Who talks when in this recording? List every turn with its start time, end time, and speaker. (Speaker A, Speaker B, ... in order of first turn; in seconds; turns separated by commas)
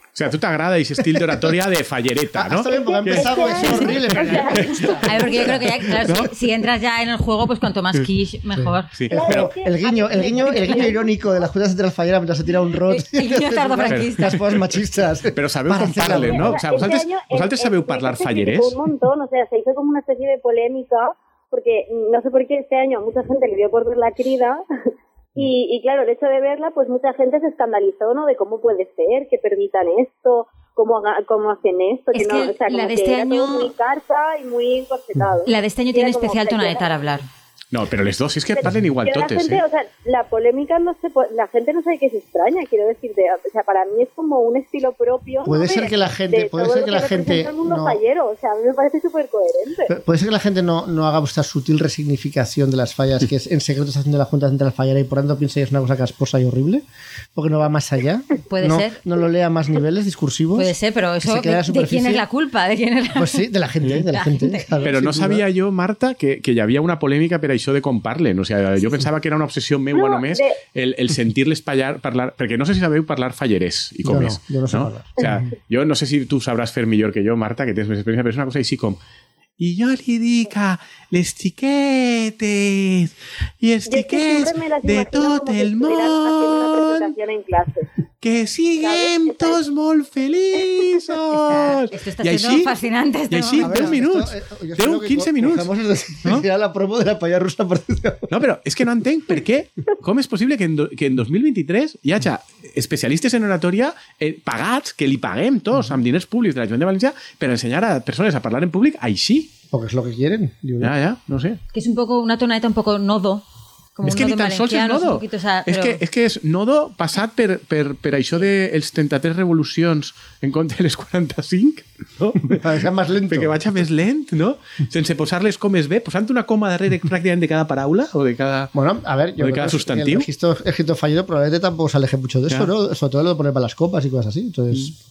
Speaker A: 0.1-6.3, Speaker B: 2.4-6.0, Speaker C: 2.8-5.1, Speaker D: 3.4-4.2, Speaker D: 5.0-8.9, Speaker B: 8.6-16.6, Speaker A: 8.9-9.6, Speaker C: 9.1-11.0, Speaker D: 10.2-10.9, Speaker D: 12.9-14.4, Speaker A: 13.9-14.6, Speaker A: 15.3-18.8, Speaker C: 16.1-24.6, Speaker C: 25.4-36.9, Speaker D: 32.1-33.7, Speaker D: 35.5-37.3, Speaker A: 37.7-39.6, Speaker C: 38.6-49.9, Speaker B: 45.5-48.0, Speaker B: 49.9-56.8, Speaker B: 57.4-62.2, Speaker D: 58.5-59.0, Speaker D: 60.5-63.5, Speaker B: 63.1-65.4, Speaker D: 64.1-64.7, Speaker A: 64.8-79.0, Speaker C: 69.9-70.6, Speaker B: 74.0-75.4, Speaker A: 79.6-87.1, Speaker C: 83.9-87.9, Speaker A: 88.2-92.7, Speaker C: 88.8-89.6, Speaker D: 91.3-93.9, Speaker A: 93.3-95.7, Speaker B: 93.6-98.3, Speaker A: 98.3-109.5, Speaker B: 109.7-110.9, Speaker A: 110.8-111.6, Speaker D: 111.7-113.4, Speaker D: 114.0-116.0, Speaker A: 114.0-128.7, Speaker B: 122.5-123.6, Speaker B: 128.7-134.9, Speaker A: 129.4-130.3